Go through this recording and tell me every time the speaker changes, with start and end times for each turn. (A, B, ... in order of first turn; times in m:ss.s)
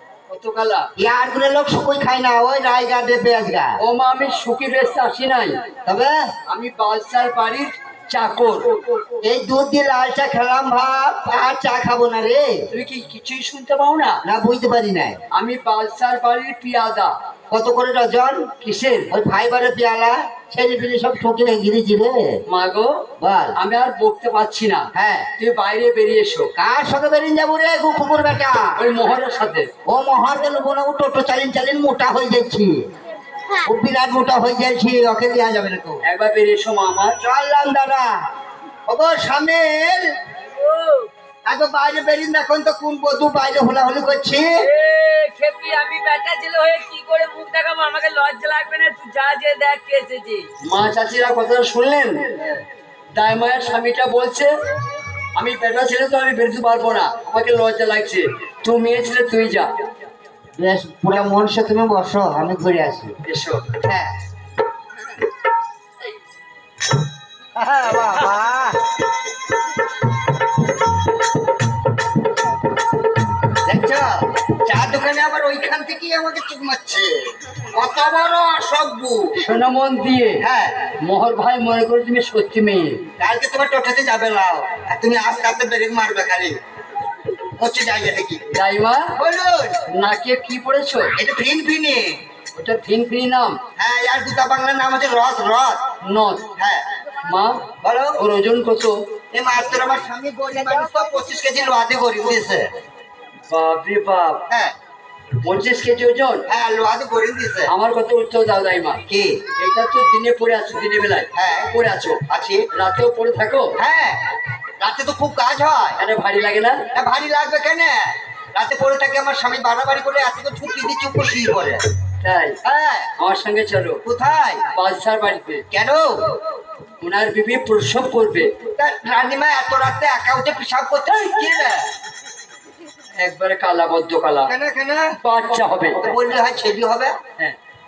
0:00.3-0:00.9 A
0:01.0-0:03.8 B
0:03.8-0:05.6 A
0:05.8-0:06.3 B
0:06.5-0:08.8 A
0:09.1-0:12.7 B
0:12.7-0:14.2 A
0:14.2-0:15.2 B
0:15.3-0:17.1 A
0:17.5-0:18.5 B
0:18.6-0:19.1 A
0:19.1-0:22.4 B
0:22.5-0:23.0 A
0:23.2-0:23.6 B
0:23.6-0:26.5 A
0:24.9-0:25.3 B
0:26.6-0:28.8 B
0:28.8-0:29.7 A
0:29.8-0:32.8 B
0:33.5-0:36.0 B
0:36.0-0:37.2 A
0:37.2-0:38.1 B
0:38.9-0:40.1 B
0:40.5-0:41.1 C
0:41.5-0:44.6 B
0:44.6-0:50.5 C
0:50.6-0:52.4 A
0:53.1-0:54.5 A
0:55.3-0:59.7 A
1:00.6-1:03.1 B
1:03.2-1:03.7 A
1:03.8-1:04.1 B
1:07.6-1:08.8 B
1:13.5-1:19.4 B
1:19.3-1:20.5 A
1:20.4-1:20.9 B
1:21.0-1:23.0 A
1:23.2-1:26.6 B
1:27.4-1:28.5 B
1:28.5-1:29.1 A
1:29.2-1:29.8 B
1:29.9-1:31.1 A
1:31.2-1:32.2 B
1:32.5-1:33.6 A
1:33.8-1:35.9 B
1:36.0-1:36.5 A
1:36.6-1:36.8 B
1:37.2-1:39.0 A
1:37.8-1:38.2 B
1:39.3-1:42.7 B
1:43.5-1:44.4 A
1:44.5-1:44.8 B
1:45.4-1:46.4 A
1:46.5-1:47.7 B
1:47.7-1:49.0 A
1:49.1-1:49.4 B
1:49.6-1:53.8 A
1:51.3-1:51.8 B
1:52.3-1:52.7 B
1:53.8-1:56.0 B
1:56.0-1:56.8 A
1:56.9-2:01.8 B
2:02.2-2:02.6 A
2:02.6-2:03.1 B
2:03.2-2:04.0 A
2:04.0-2:04.7 B
2:04.7-2:05.6 A
2:05.7-2:06.4 B
2:07.0-2:08.5 A
2:08.5-2:11.9 B
2:13.2-2:14.5 A
2:14.5-2:15.1 B
2:15.2-2:16.1 A
2:16.0-2:17.2 B